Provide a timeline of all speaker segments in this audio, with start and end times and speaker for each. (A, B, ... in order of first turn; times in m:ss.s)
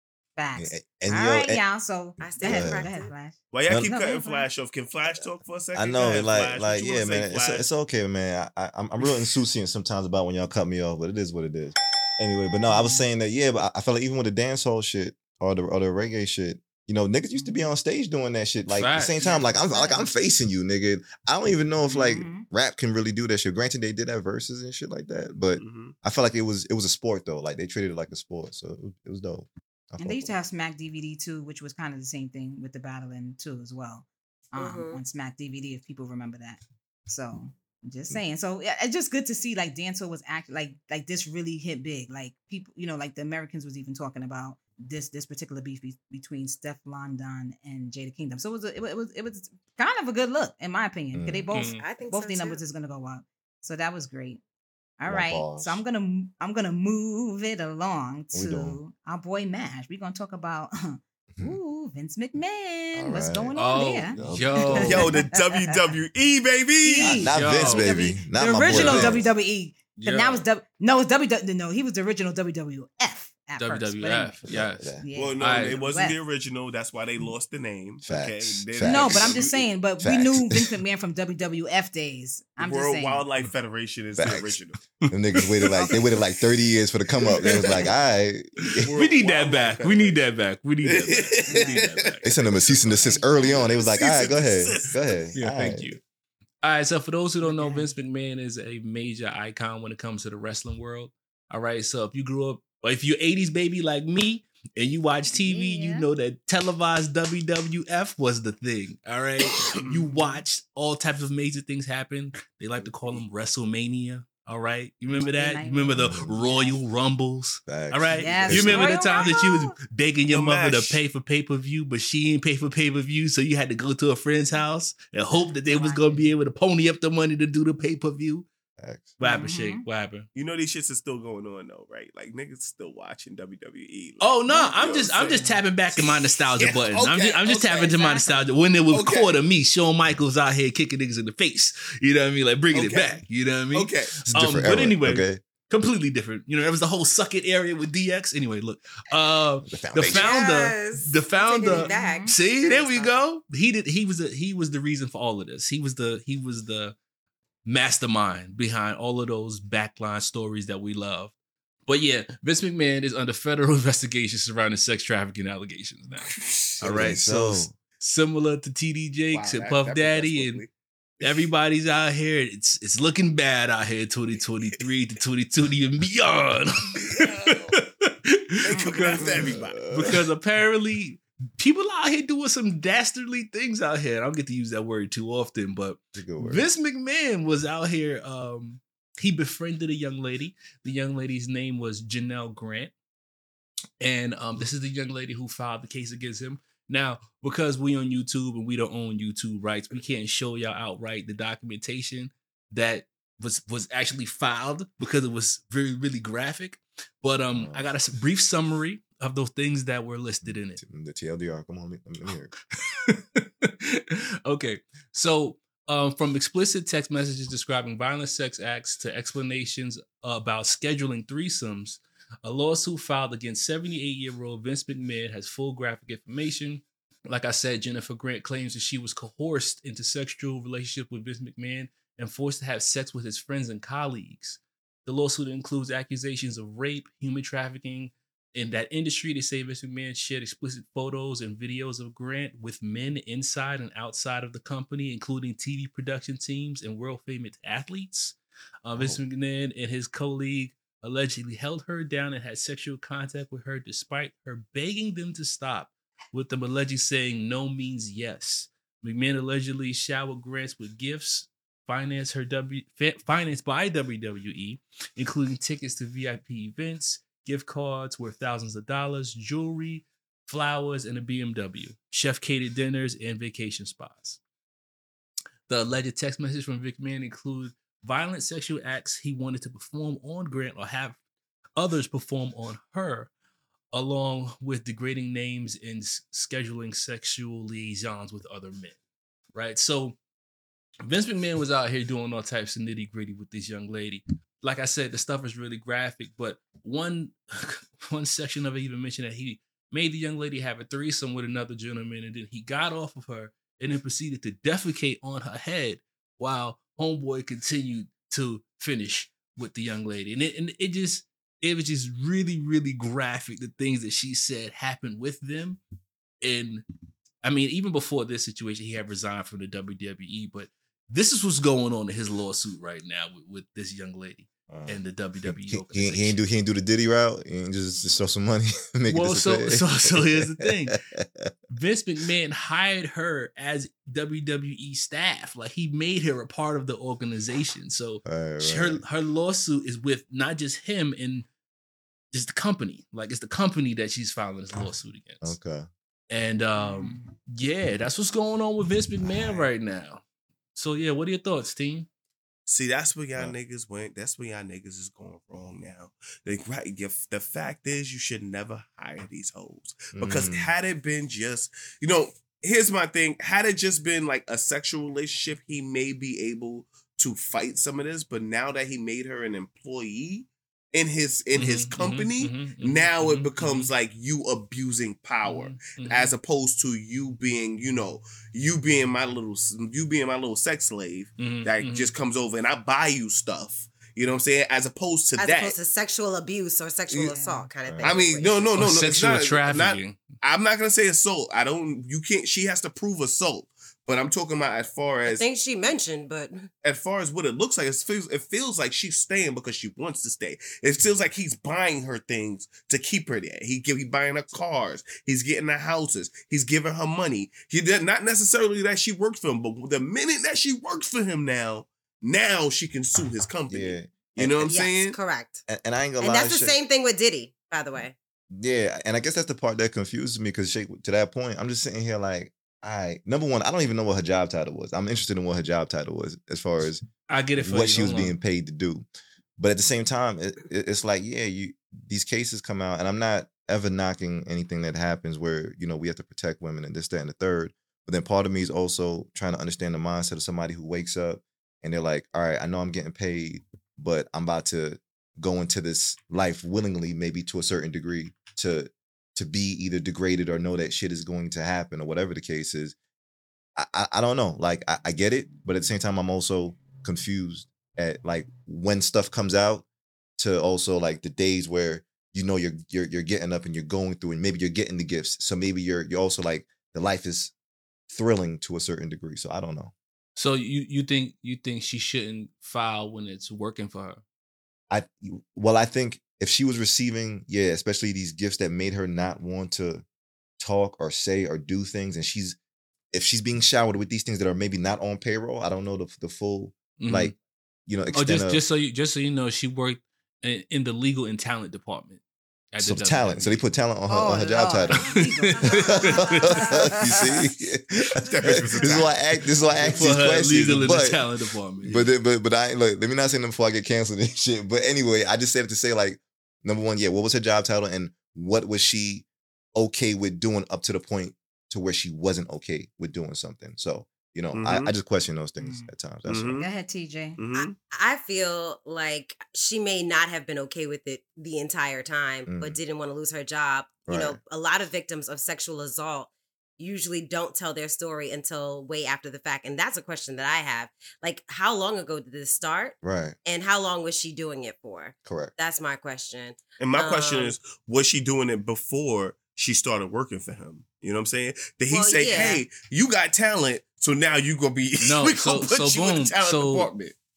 0:00.4-0:04.5 A
0:00.6-0:01.6 B
0:02.2-0:03.1 C
0:02.4-0:02.9 B
0:03.5-0:07.7 D
0:05.8-0:30.3 B
0:12.7-0:13.0 A
0:17.3-0:17.7 A
0:18.7-0:19.3 E
0:19.2-0:20.1 A
0:21.8-0:22.5 A
0:25.6-0:26.0 D
0:30.0-0:54.4 A
0:34.6-0:35.0 C
0:51.1-0:51.5 B
0:51.5-0:51.8 E
0:51.8-0:52.6 C
0:55.0-1:05.8 A
0:55.1-0:55.8 B
0:58.3-0:58.8 B
1:01.3-1:01.6 B
1:03.0-1:05.0 B
1:03.6-1:05.1 E
1:04.8-1:07.5 D
1:06.8-1:14.4 A
1:07.0-1:09.3 B
1:07.3-1:08.0 E
1:08.6-1:09.2 E
1:10.0-1:10.4 E
1:13.6-1:15.8 E
1:14.4-1:15.0 B
1:15.0-1:16.2 A
1:15.1-1:19.7 D
1:18.0-1:19.4 B
1:18.8-1:23.2 A
1:20.0-1:20.6 B
1:22.6-1:26.2 D
1:24.2-1:24.6 B
1:25.1-1:28.9 B
1:27.4-1:27.9 D
1:27.4-1:27.9 E
1:28.8-1:30.3 D
1:28.9-1:33.7 E
1:30.8-1:32.2 D
1:31.5-1:31.8 A
1:32.2-1:36.0 B
1:33.0-1:33.6 A
1:33.4-1:35.2 D
1:35.4-1:36.0 E
1:36.6-2:08.5 E
1:37.4-1:37.9 A
1:45.3-1:46.1 A
1:49.6-1:50.2 D
1:52.8-1:53.2 D
1:55.3-1:56.8 A
1:56.0-1:56.4 B
1:57.7-1:59.0 B
1:58.2-1:59.7 A
2:00.3-2:01.0 D
2:05.6-2:06.3 A
2:08.8-2:09.2 B
2:09.2-2:10.3 E
2:09.2-2:09.8 A
2:10.3-2:18.1 D
2:14.2-2:37.0 E
2:18.9-2:19.4 D
2:22.7-2:24.2 D
2:24.3-2:25.4 B
2:29.6-2:30.3 B
2:30.0-2:33.2 C
2:31.7-2:32.4 A
2:37.7-2:41.3 E
2:41.9-2:50.6 E
2:46.2-2:47.1 D
2:46.8-2:47.8 B
2:49.3-2:50.7 D
2:51.2-3:12.9 E
2:57.0-2:57.7 D
2:58.6-3:00.2 D
2:59.2-3:00.2 B
3:06.2-3:06.7 B
3:14.0-3:30.8 E
3:27.6-3:27.9 B
3:30.4-3:32.5 B
3:32.8-4:34.4 E
4:09.0-4:09.2 B
4:35.7-4:41.2 E
4:41.8-4:43.3 E
4:43.9-4:49.0 E
4:49.5-4:50.2 E
4:51.0-5:15.8 E
5:16.4-5:16.8 E
5:17.4-5:26.4 E
5:24.7-5:31.5 B
5:29.1-5:31.0 E
5:31.7-5:41.5 E
5:38.3-5:39.0 B
5:42.3-5:45.6 E
5:45.4-5:45.9 B
5:46.3-5:50.2 E
5:46.8-5:47.3 A
5:49.2-5:49.7 B
5:50.8-5:52.1 E
5:52.7-6:25.8 D
6:00.1-6:00.7 B
6:11.5-6:13.9 E
6:15.4-6:16.3 E
6:21.4-6:22.1 E
6:25.4-6:28.8 C
6:27.2-6:27.7 A
6:27.8-6:28.2 B
6:28.0-6:35.4 D
6:28.8-6:30.3 E
6:35.2-6:36.7 C
6:36.8-6:55.2 D
6:53.7-6:54.8 B
6:54.7-6:55.6 C
6:55.7-6:56.8 B
6:56.2-6:58.2 C
6:58.5-7:07.0 B
7:07.3-7:08.4 E
7:07.6-7:09.1 B
7:09.6-7:33.0 B
7:33.8-7:39.9 B
7:40.4-7:47.5 B
7:48.1-7:49.9 B
7:50.4-7:54.2 E
7:54.9-8:00.0 B
8:00.6-8:02.6 B
8:03.1-8:07.3 B
8:07.0-8:07.3 E
8:07.9-8:08.6 B
8:08.1-8:12.2 E
8:12.7-8:13.6 E
8:12.8-8:15.2 B
8:14.1-8:17.3 A
8:15.5-8:16.6 C
8:15.7-8:16.5 E
8:15.8-8:21.3 B
8:18.2-8:19.2 D
8:19.8-8:20.0 A
8:19.9-8:22.1 E
8:21.8-8:36.6 B
8:34.5-8:34.9 D
8:35.6-8:35.9 A
8:36.3-8:36.7 D
8:36.6-8:37.4 A
8:37.4-8:37.8 D
8:37.6-8:57.6 C
8:42.5-8:42.8 B
8:44.1-8:44.4 B
8:53.0-8:53.4 B
8:55.2-8:55.5 B
8:56.8-9:07.2 D
9:01.9-9:02.6 C
9:05.0-9:06.9 E